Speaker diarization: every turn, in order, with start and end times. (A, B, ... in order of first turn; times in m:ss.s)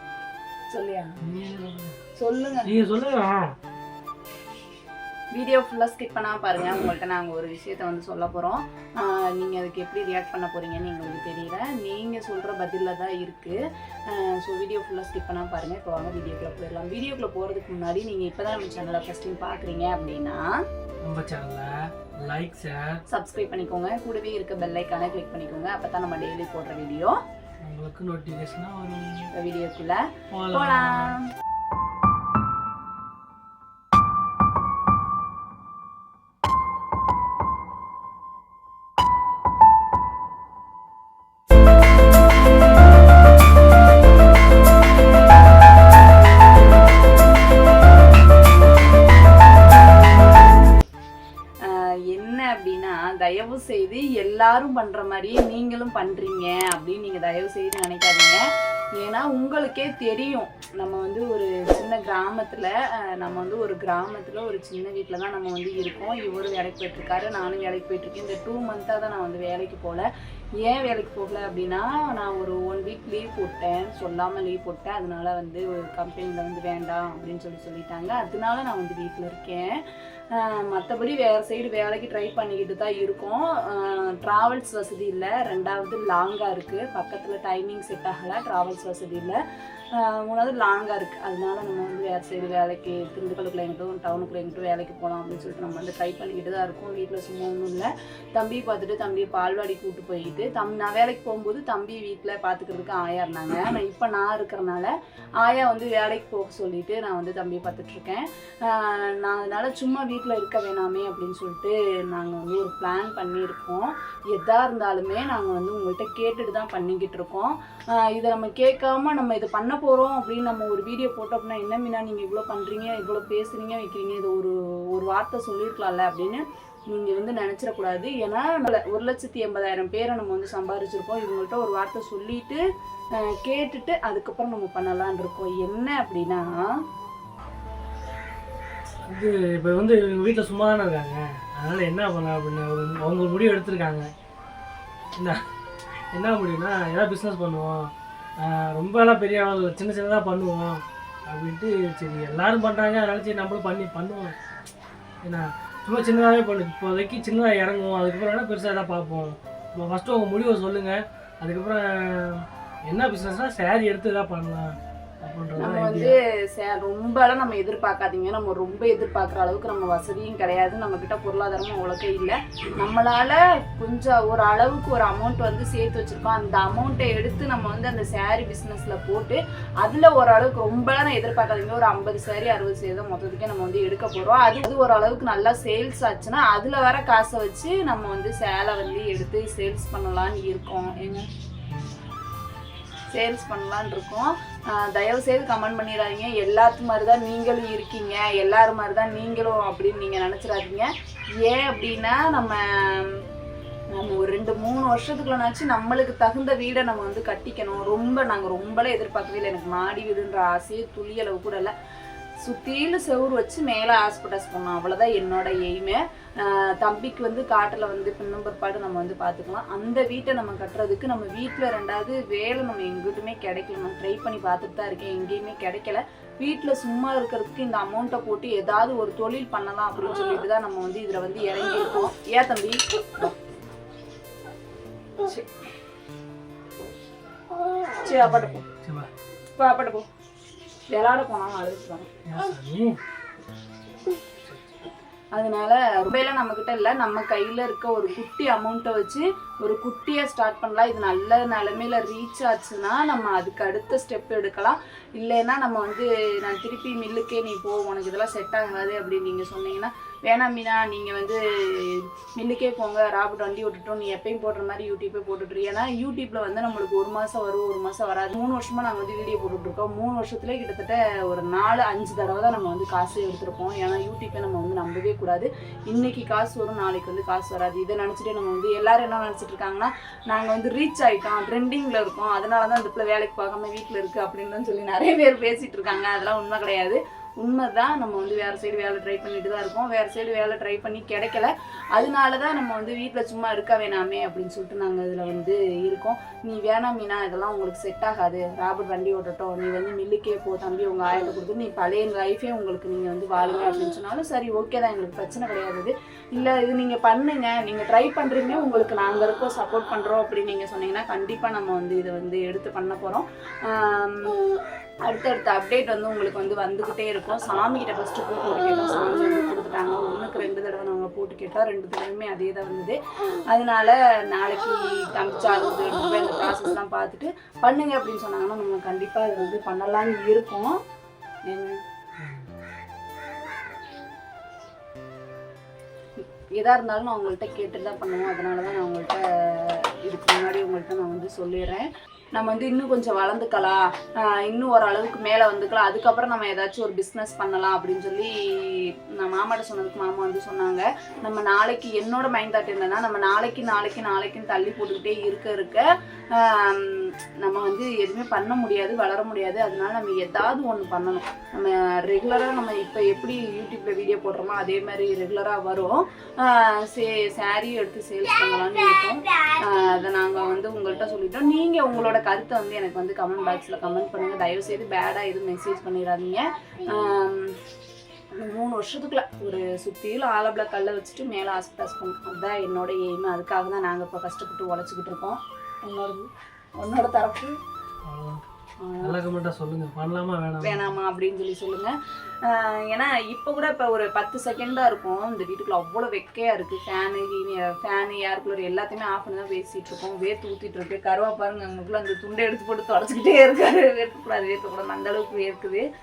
0:00.7-0:01.2 A
0:01.2-0:02.0 B
0:02.2-0:02.7 A
0:02.6-0:03.5 B
0:05.3-0:20.4 A
0:21.0-0:23.0 B
0:23.1-0:27.2 A
0:27.6-0:29.3 B
0:29.3-0:31.3 A
0:30.3-0:31.2 B
0:51.6-0:58.4 A
0:59.0-1:10.0 A
1:10.6-1:19.8 A
1:20.3-1:29.4 A
1:29.9-2:12.6 A
2:13.2-2:16.5 A
2:19.1-2:24.1 B
2:26.1-2:34.4 B
2:35.2-2:46.2 B
2:45.6-3:11.3 A
3:11.7-3:12.0 B
3:13.1-3:20.9 A
3:21.4-3:23.2 A
3:23.9-3:31.7 A
3:32.4-3:53.3 A
3:55.2-3:55.5 A
3:58.0-3:58.7 A
3:58.2-3:59.1 B
3:59.5-4:00.1 A
4:00.9-4:02.1 A
4:02.2-4:03.0 B
4:04.4-4:04.8 B
4:05.3-5:14.5 A
5:15.0-5:23.0 A
5:23.5-5:30.8 A
5:31.5-5:31.8 A
5:32.2-5:32.5 B
5:36.2-6:17.6 A
6:18.3-6:27.6 A
6:28.1-6:28.4 B
6:28.8-6:29.2 A
6:29.0-6:30.9 B
6:30.6-6:45.8 A